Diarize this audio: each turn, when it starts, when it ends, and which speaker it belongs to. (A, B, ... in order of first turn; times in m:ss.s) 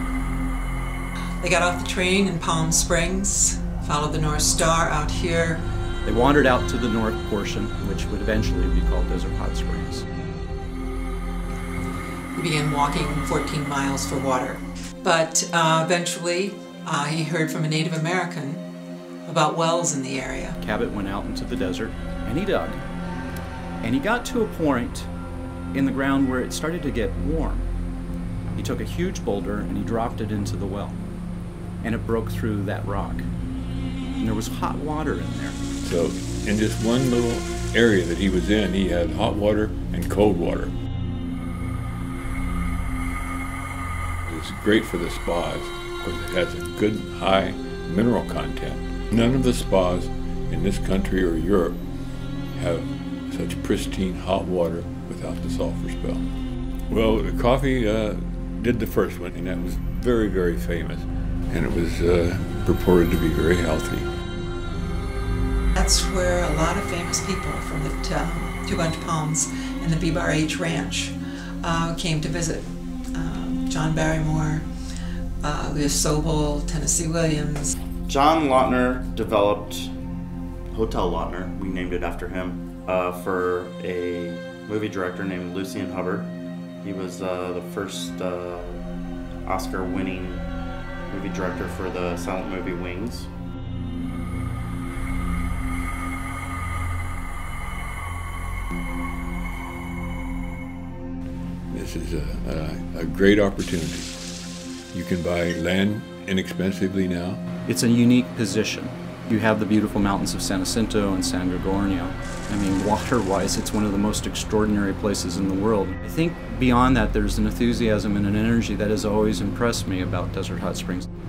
0:01.4-0:05.6 A
0:06.0-0:10.0 B
0:12.4-0:18.6 A
0:19.2-0:20.6 A
0:20.6-0:22.8 B
0:23.8-0:25.1 B
0:25.7-0:27.7 B
0:28.6-0:31.0 B
0:31.8-0:33.3 B
0:34.2-0:35.6 B
0:35.8-0:40.7 C
0:44.3-0:51.8 C
0:52.6-0:56.2 C
0:56.9-1:04.1 C
1:05.8-1:14.7 A
1:15.4-1:17.7 A
1:18.1-1:19.9 D
1:20.7-1:28.8 D
1:29.4-1:30.5 D
1:31.1-1:33.3 D
1:41.7-1:44.1 C
1:44.9-1:47.4 C
1:47.7-2:01.1 B